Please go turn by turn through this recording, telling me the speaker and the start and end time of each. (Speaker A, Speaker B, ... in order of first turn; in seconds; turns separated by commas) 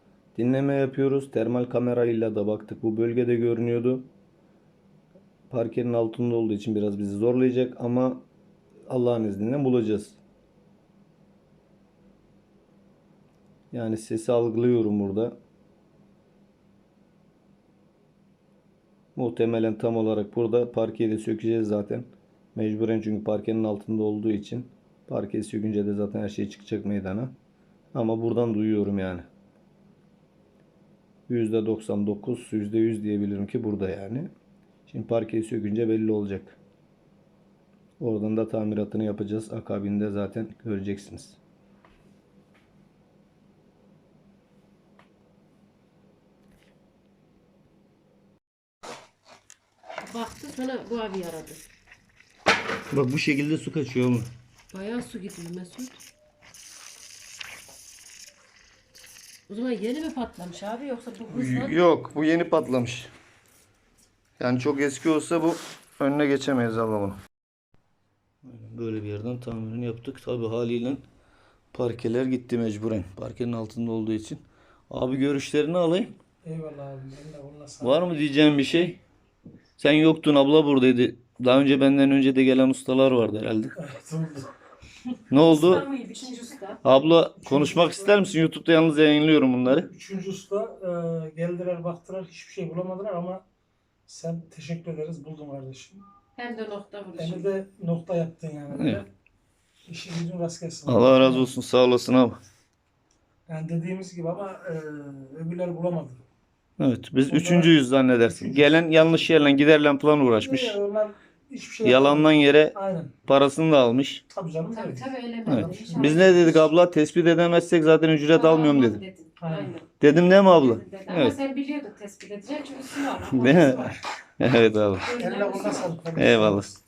Speaker A: 0.3-4.1, Speaker A: 5.5-8.2, Speaker A: 8.9-10.2, Speaker A: 13.7-15.3, Speaker A: 19.1-27.3, Speaker A: 27.9-29.2, Speaker A: 31.3-34.3, Speaker A: 34.9-36.6, Speaker A: 38.0-41.4, Speaker B: 50.0-51.6, Speaker A: 52.9-54.3, Speaker B: 54.7-56.0, Speaker B: 59.5-61.8, Speaker A: 61.3-63.1, Speaker A: 64.4-67.2, Speaker A: 68.4-71.0, Speaker A: 71.7-76.1, Speaker C: 76.4-78.1, Speaker A: 77.8-79.0, Speaker A: 79.8-83.7, Speaker C: 83.8-84.5, Speaker A: 85.3-85.8, Speaker B: 85.4-86.8, Speaker A: 86.8-89.9, Speaker C: 87.4-88.1, Speaker C: 89.7-93.4, Speaker C: 94.0-96.0, Speaker B: 96.3-97.5, Speaker C: 97.2-99.1, Speaker A: 98.7-99.0, Speaker C: 99.9-101.5, Speaker A: 100.8-102.4, Speaker C: 103.5-106.2, Speaker A: 106.8-110.8, Speaker C: 107.3-107.8, Speaker C: 108.3-108.7, Speaker C: 110.4-113.1, Speaker A: 111.8-114.2, Speaker C: 114.3-116.4, Speaker B: 114.7-116.6, Speaker A: 115.5-119.0, Speaker B: 118.3-119.9, Speaker C: 119.4-119.7, Speaker A: 120.0-121.3, Speaker B: 120.5-123.9, Speaker A: 123.3-125.1, Speaker C: 123.4-124.0, Speaker B: 125.0-125.9, Speaker C: 125.2-126.8, Speaker A: 126.1-126.7